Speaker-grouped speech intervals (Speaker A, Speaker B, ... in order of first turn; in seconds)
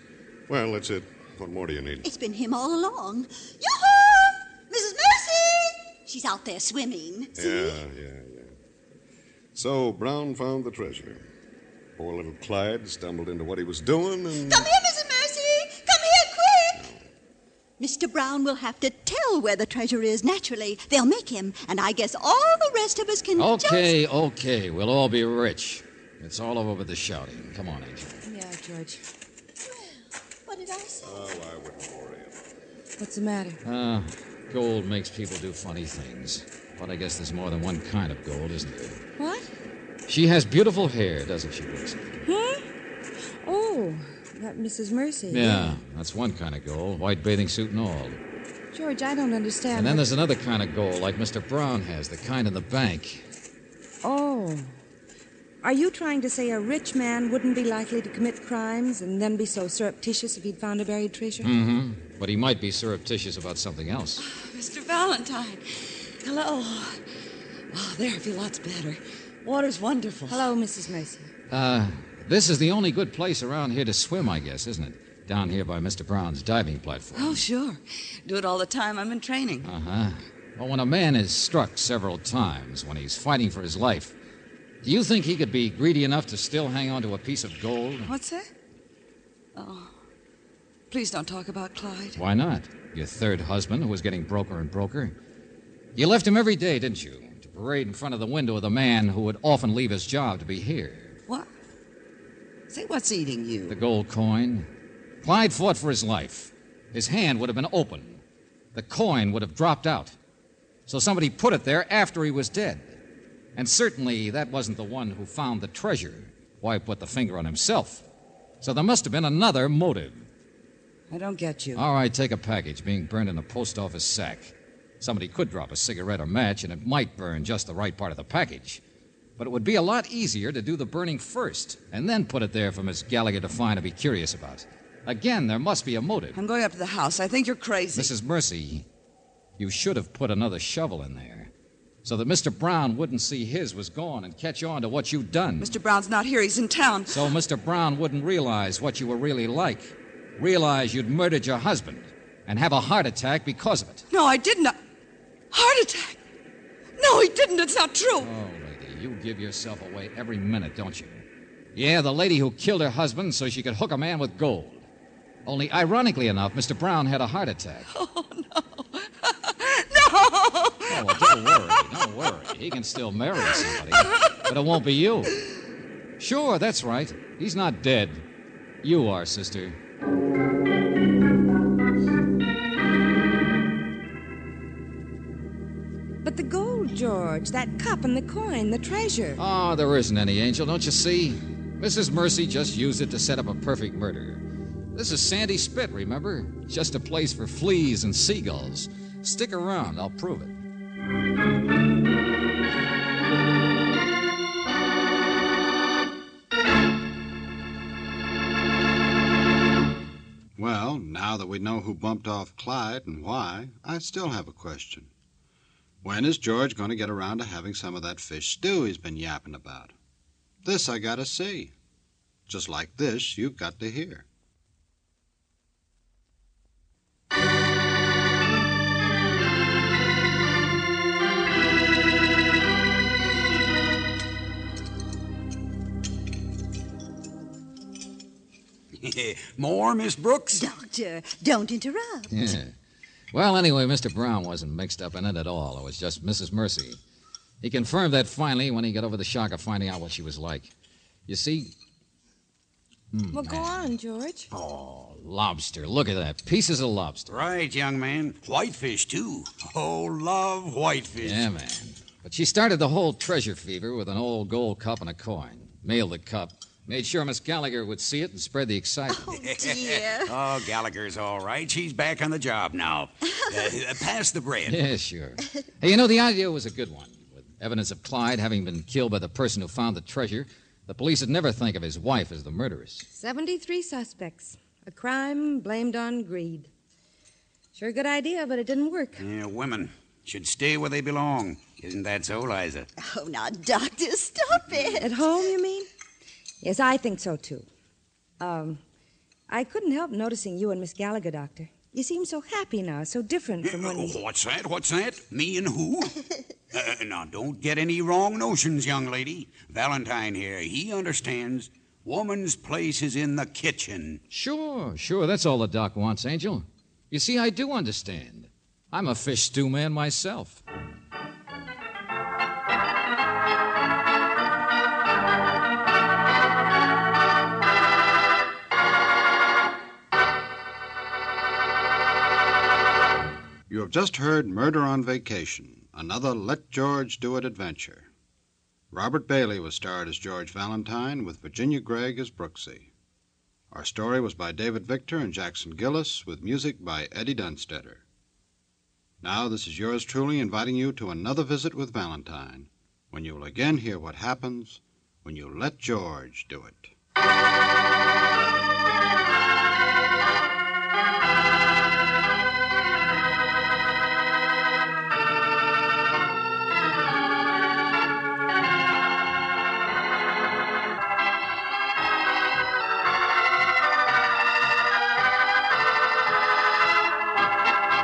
Speaker A: 0.5-2.1, 7.4-8.5, 9.6-11.2, 12.0-14.7, 31.0-32.4
Speaker B: 2.0-7.8, 14.3-16.9, 17.8-24.0, 29.6-31.3, 240.5-242.3, 269.1-270.4, 293.0-295.1
Speaker C: 23.4-28.2, 33.6-39.0, 40.1-42.2, 45.3-48.2, 49.7-53.2, 61.4-64.2, 71.5-77.4, 79.6-84.1, 84.8-88.1, 92.2-95.2, 96.0-101.2, 103.7-104.7, 105.2-108.2, 108.7-110.2, 110.9-113.0, 113.6-118.0, 118.6-120.3, 121.8-128.8, 129.4-136.4, 137.9-138.9, 139.6-141.5, 142.0-145.8, 147.1-154.1, 158.2-164.9, 165.5-167.9, 170.9-175.4, 176.2-178.2, 178.8-179.8, 189.4-200.6, 242.3-242.7, 243.3-247.0, 247.6-250.7, 251.3-251.7, 253.1-253.9, 254.8-257.5, 261.2-269.4, 274.7-283.1, 314.3-320.6
Speaker D: 28.2-29.0, 33.0-33.6, 39.2-39.5, 42.2-42.6, 43.4-45.8, 48.7-50.1, 54.0-54.8, 55.6-61.5, 70.3-71.3, 186.2-189.4, 253.3-254.5, 283.1-286.7, 287.8-289.2, 295.0-295.9, 296.6-297.7, 298.4-298.8, 299.5-304.1
Speaker E: 64.2-67.0, 67.7-70.5, 77.2-79.7, 88.0-88.5, 89.5-90.0, 90.9-92.2, 102.7-103.8, 121.1-121.8, 136.3-138.1, 145.6-147.3, 154.1-154.8, 155.5-156.2, 157.0-158.3, 167.9-171.8, 174.1-174.4
Speaker F: 210.6-215.1, 216.0-219.9, 220.6-221.7, 222.5-224.3, 333.7-338.1, 338.9-342.9, 343.7-348.0, 349.2-356.9
Speaker G: 239.0-240.7, 254.6-254.9, 257.3-261.4, 269.4-274.8, 289.2-292.9, 303.6-306.1, 306.7-314.2